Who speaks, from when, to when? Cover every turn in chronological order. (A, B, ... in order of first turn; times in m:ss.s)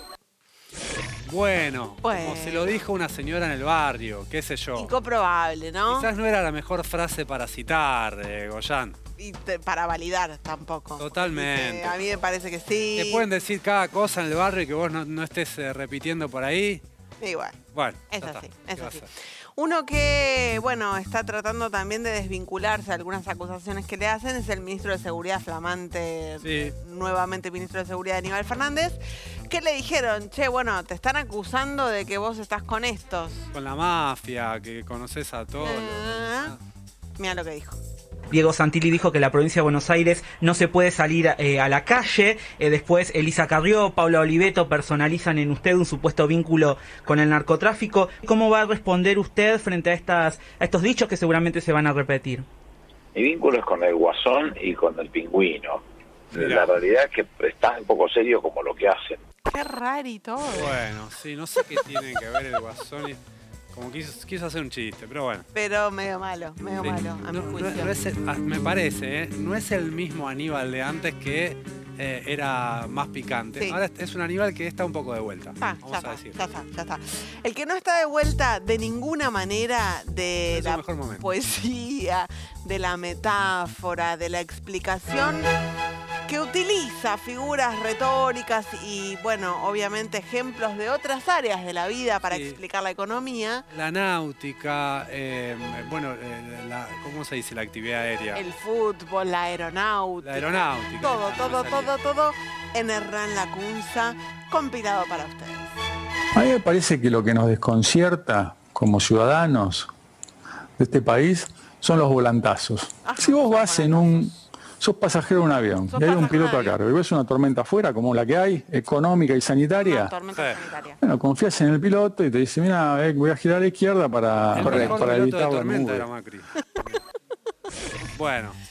0:01.3-0:04.9 A
0:02.0-0:02.9 B
0:04.7-0:06.1 B
0:05.9-0:09.0 A
0:09.2-0:13.3 B
0:11.0-0:12.0 A
0:13.0-0:16.8 A
0:17.2-0:33.4 B
0:17.7-0:19.1 A
0:26.4-0:26.8 A
0:33.5-0:36.6 A
0:35.6-0:36.6 B
0:37.2-0:37.8 B
0:38.3-0:52.5 C
0:53.2-0:55.8 D
0:56.3-0:59.2 D
0:56.4-0:56.7 A
0:59.5-1:00.8 B
1:00.5-1:03.2 A
1:03.7-1:05.5 A
1:05.5-1:08.0 B
1:06.7-1:16.4 A
1:13.6-1:13.8 B
1:15.6-1:25.4 B
1:20.5-1:21.2 A
1:26.3-1:33.7 B
1:32.3-1:32.6 A
1:33.7-1:38.4 A
1:38.3-1:45.8 B
1:40.2-1:41.9 A
1:46.3-1:49.9 E
1:50.8-2:00.2 E
1:53.0-1:54.4 B
1:55.9-1:56.8 B
1:59.8-2:01.0 B
2:01.0-2:06.1 E
2:04.6-2:06.5 A
2:04.6-2:05.1 B
2:08.2-2:08.6 A